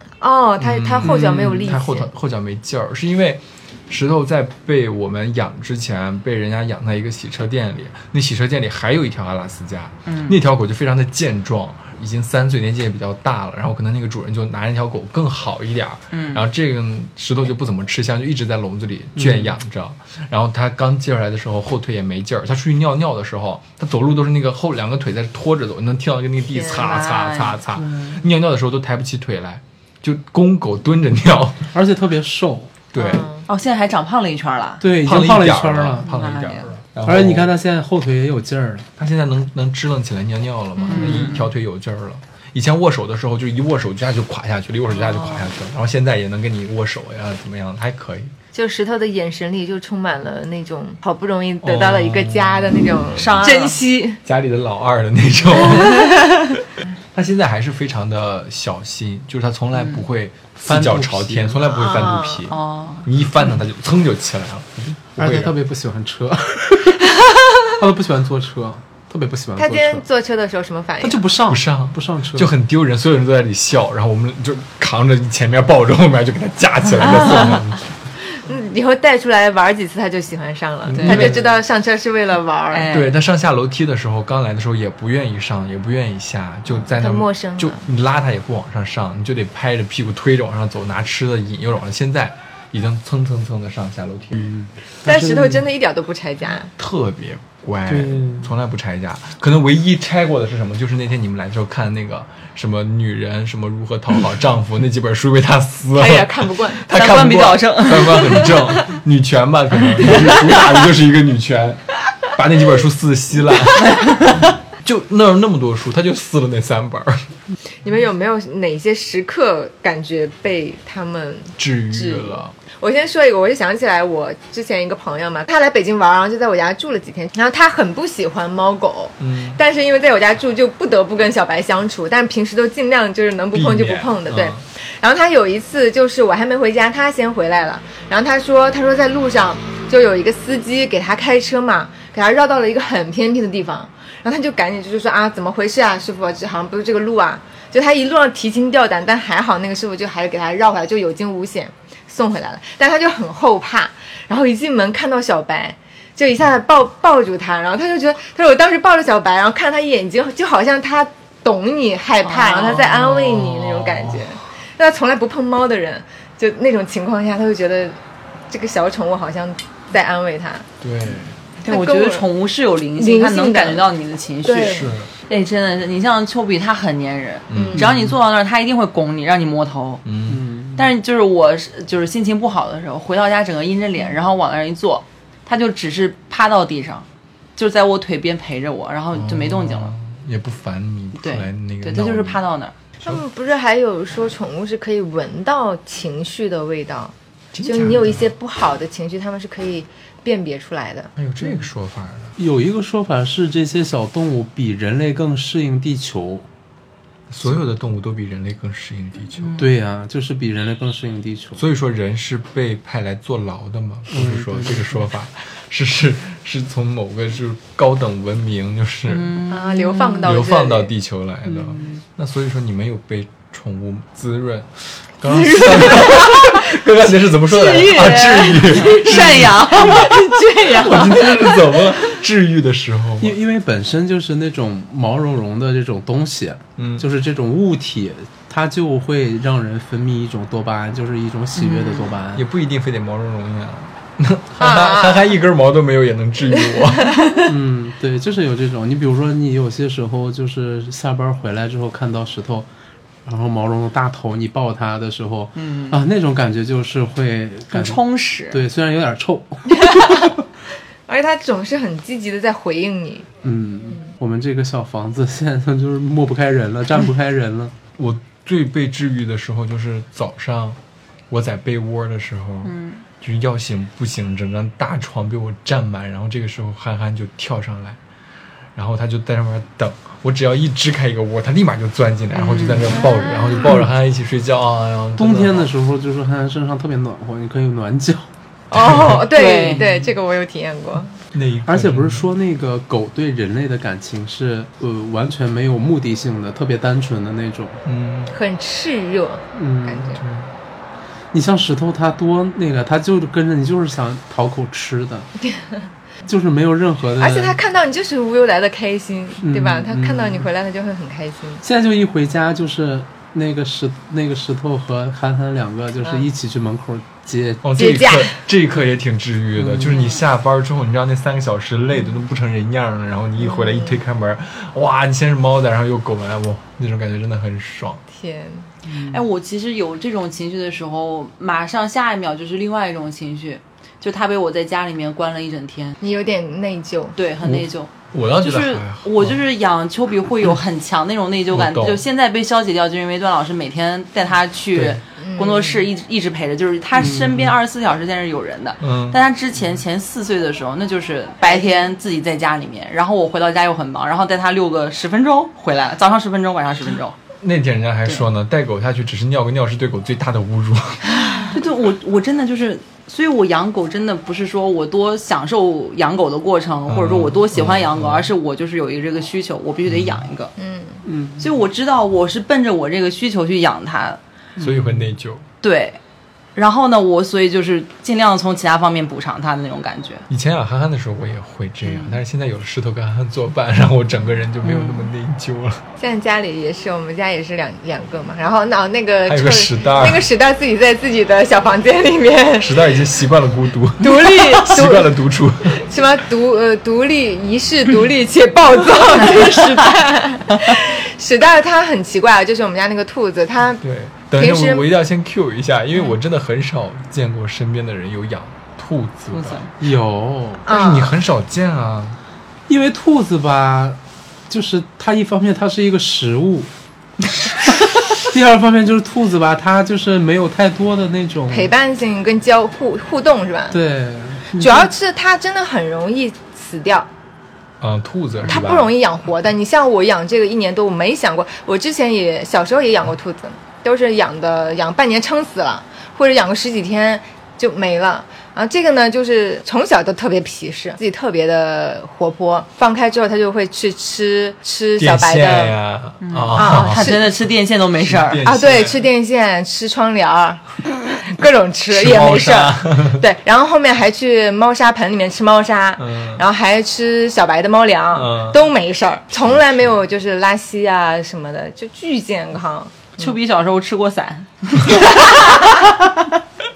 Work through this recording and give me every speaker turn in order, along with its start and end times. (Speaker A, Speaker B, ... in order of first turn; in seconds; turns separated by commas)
Speaker A: 0.2-2.1, Speaker B: 0.6-31.7, Speaker C: 1.0-1.6, Speaker D: 10.1-10.4, Speaker D: 16.1-16.4, Speaker C: 19.2-19.5, Speaker D: 26.7-27.6, Speaker C: 31.7-32.7, Speaker B: 32.9-33.3, Speaker A: 33.0-33.5, Speaker D: 33.5-34.8, Speaker C: 34.8-36.1, Speaker B: 35.0-37.5, Speaker D: 36.0-36.7, Speaker C: 37.0-38.9, Speaker B: 39.0-48.3, Speaker A: 40.8-41.3, Speaker D: 40.9-41.5, Speaker D: 45.0-45.5, Speaker A: 48.5-54.2, Speaker B: 51.6-53.4, Speaker D: 53.1-53.8, Speaker B: 54.2-56.3, Speaker A: 55.6-56.3, Speaker B: 57.1-65.5, Speaker C: 60.6-61.6, Speaker A: 61.6-62.5, Speaker D: 62.5-63.1, Speaker C: 65.2-70.0, Speaker A: 69.6-71.2, Speaker C: 71.0-72.5, Speaker B: 71.5-77.9, Speaker D: 77.0-77.5, Speaker A: 78.3-82.9, Speaker B: 80.8-81.4, Speaker D: 81.0-81.4, Speaker D: 82.7-83.2, Speaker B: 82.9-94.5, Speaker A: 86.8-87.8, Speaker C: 94.5-95.6, Speaker A: 95.0-96.7, Speaker B: 96.8-117.2, Speaker C: 97.9-98.5, Speaker A: 106.0-106.9, Speaker D: 106.9-108.8, Speaker D: 110.0-110.7, Speaker D: 113.8-114.4, Speaker A: 117.8-168.0, Speaker B: 121.6-122.5, Speaker B: 129.2-129.6, Speaker B: 133.5-134.6, Speaker D: 162.2-162.9, Speaker B: 162.8-164.3, Speaker A: 168.5-170.7, Speaker B: 170.8-171.4, Speaker A: 171.6-172.2, Speaker D: 171.6-180.0, Speaker A: 173.0-173.9, Speaker A: 174.4-174.9, Speaker B: 174.7-175.1, Speaker B: 177.5-177.9, Speaker A: 177.5-177.8, Speaker C: 177.8-178.1, Speaker B: 180.0-180.4, Speaker C: 180.3-180.8, Speaker D: 180.8-187.0, Speaker D: 187.6-189.9, Speaker B: 189.1-192.4, Speaker D: 191.2-192.7, Speaker A: 193.0-201.1, Speaker B: 197.5-198.3, Speaker B: 201.2-202.4, Speaker C: 202.4-206.4, Speaker B: 207.3-209.6, Speaker D: 209.4-209.6, Speaker C: 209.6-211.6, Speaker B: 211.6-219.4, Speaker C: 214.1-215.0, Speaker D: 219.1-220.3, Speaker A: 219.5-220.9, Speaker B: 220.2-233.4, Speaker D: 221.5-222.0, Speaker D: 225.2-226.6, Speaker D: 227.5-230.1, Speaker A: 229.7-231.8, Speaker C: 233.2-242.4, Speaker B: 236.8-237.1, Speaker D: 241.5-242.1, Speaker B: 242.3-247.2, Speaker A: 244.6-245.3, Speaker A: 247.1-247.4, Speaker C: 247.4-252.7, Speaker C: 253.2-258.0, Speaker D: 255.6-256.0, Speaker D: 257.7-258.6, Speaker C: 258.5-260.3, Speaker A: 259.7-260.3, Speaker A: 261.1-263.3, Speaker C: 263.4-267.7, Speaker B: 268.0-270.8, Speaker B: 271.3-278.0, Speaker D: 272.6-273.0, Speaker B: 278.7-285.7, Speaker D: 282.3-283.0, Speaker C: 285.2-288.3, Speaker A: 288.7-291.1, Speaker B: 288.7-289.3, Speaker D: 289.2-289.8, Speaker B: 291.3-292.3, Speaker C: 291.7-297.8, Speaker B: 297.8-298.3, Speaker A: 298.3-300.2, Speaker C: 299.5-300.1, Speaker B: 300.1-300.5, Speaker C: 301.3-305.3, Speaker A: 305.4-305.8, Speaker C: 306.2-307.6, Speaker A: 307.2-311.6, Speaker C: 309.4-310.5, Speaker C: 311.6-317.7, Speaker B: 317.6-328.0, Speaker A: 317.8-318.4, Speaker C: 319.6-320.0, Speaker D: 319.9-320.2, Speaker A: 323.5-324.0, Speaker A: 328.1-328.7, Speaker C: 328.9-329.2, Speaker D: 329.1-336.0, Speaker A: 336.0-337.2, Speaker D: 337.2-357.2, Speaker B: 337.4-339.4, Speaker B: 341.5-342.0, Speaker B: 344.7-345.0, Speaker A: 345.2-345.8, Speaker C: 346.9-347.4, Speaker B: 348.8-349.2, Speaker A: 351.4-351.9, Speaker B: 357.4-361.2, Speaker D: 361.4-370.5, Speaker B: 366.9-368.3, Speaker B: 369.9-370.2, Speaker A: 370.6-371.0, Speaker C: 371.0-371.4, Speaker D: 371.4-374.2, Speaker C: 374.6-375.1, Speaker B: 374.6-375.4, Speaker D: 375.6-376.0, Speaker D: 376.6-380.2, Speaker B: 380.3-385.8, Speaker D: 381.9-382.2, Speaker C: 384.6-385.0, Speaker A: 386.0-392.8, Speaker B: 389.3-390.3, Speaker B: 392.6-395.8, Speaker A: 394.0-403.8, Speaker B: 403.8-409.6, Speaker A: 404.4-404.8, Speaker D: 409.3-409.7, Speaker C: 409.8-410.7, Speaker A: 410.6-411.1, Speaker B: 410.7-412.2, Speaker C: 412.7-416.7, Speaker C: 417.4-421.7, Speaker A: 421.5-423.8, Speaker C: 423.7-424.9, Speaker A: 424.6-427.1, Speaker B: 427.8-428.9, Speaker A: 428.4-445.7, Speaker B: 445.0-447.4, Speaker D: 446.2-448.4, Speaker A: 446.5-447.2, Speaker B: 448.0-449.1, Speaker A: 448.4-450.6, Speaker A: 451.1-463.3, Speaker B: 451.9-453.2, Speaker B: 456.0-456.4, Speaker B: 458.1-458.6, Speaker B: 459.3-459.9, Speaker D: 463.2-466.4